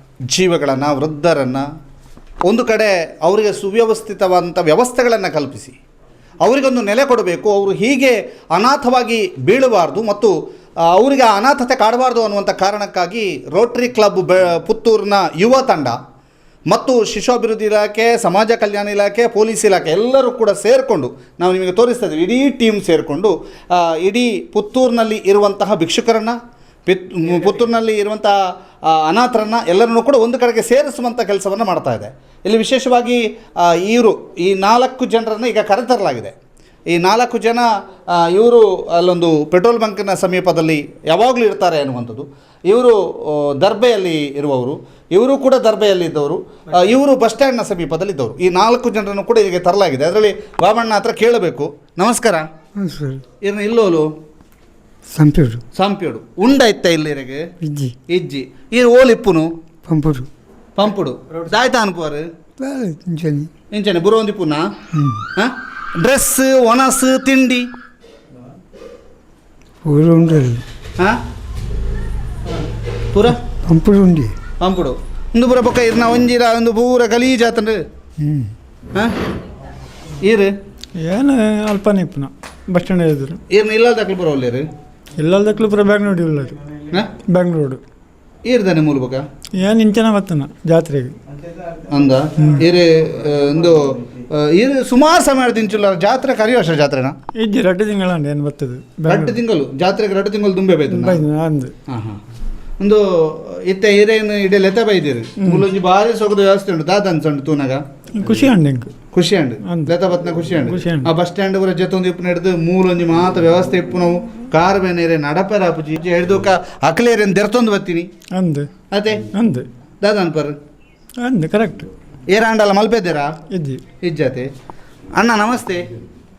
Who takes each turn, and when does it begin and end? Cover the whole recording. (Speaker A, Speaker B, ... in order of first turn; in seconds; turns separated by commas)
Speaker A: 0.3-1.6, Speaker A: 2.5-5.8, Speaker A: 6.4-10.3, Speaker A: 10.9-16.0, Speaker A: 16.7-28.3, Speaker A: 28.9-36.3, Speaker A: 36.9-52.5, Speaker B: 52.8-53.2, Speaker A: 53.4-54.1, Speaker B: 55.1-55.6, Speaker A: 55.8-57.4, Speaker B: 57.6-57.9, Speaker A: 58.1-59.5, Speaker B: 59.9-60.3, Speaker A: 60.8-62.2, Speaker B: 62.6-63.5, Speaker A: 63.7-64.6, Speaker A: 65.4-67.6, Speaker B: 69.8-70.6, Speaker A: 73.1-73.4, Speaker B: 73.7-74.3, Speaker A: 74.6-77.8, Speaker B: 78.2-78.5, Speaker A: 80.2-80.5, Speaker C: 81.0-83.4, Speaker A: 83.5-84.6, Speaker C: 85.2-86.6, Speaker C: 87.3-87.8, Speaker A: 88.4-89.2, Speaker C: 89.6-91.2, Speaker A: 91.9-97.1, Speaker C: 97.4-99.4, Speaker A: 99.1-101.2, Speaker C: 100.9-101.7, Speaker A: 101.9-102.2, Speaker A: 102.8-107.8, Speaker C: 108.2-108.9, Speaker A: 109.1-118.1, Speaker C: 109.7-109.9, Speaker C: 110.7-111.1, Speaker C: 118.3-118.7, Speaker A: 118.9-119.2, Speaker C: 119.3-119.7, Speaker A: 120.0-120.5, Speaker C: 121.2-121.9, Speaker A: 122.3-123.3, Speaker C: 123.5-123.8, Speaker A: 124.0-124.5, Speaker A: 125.2-125.8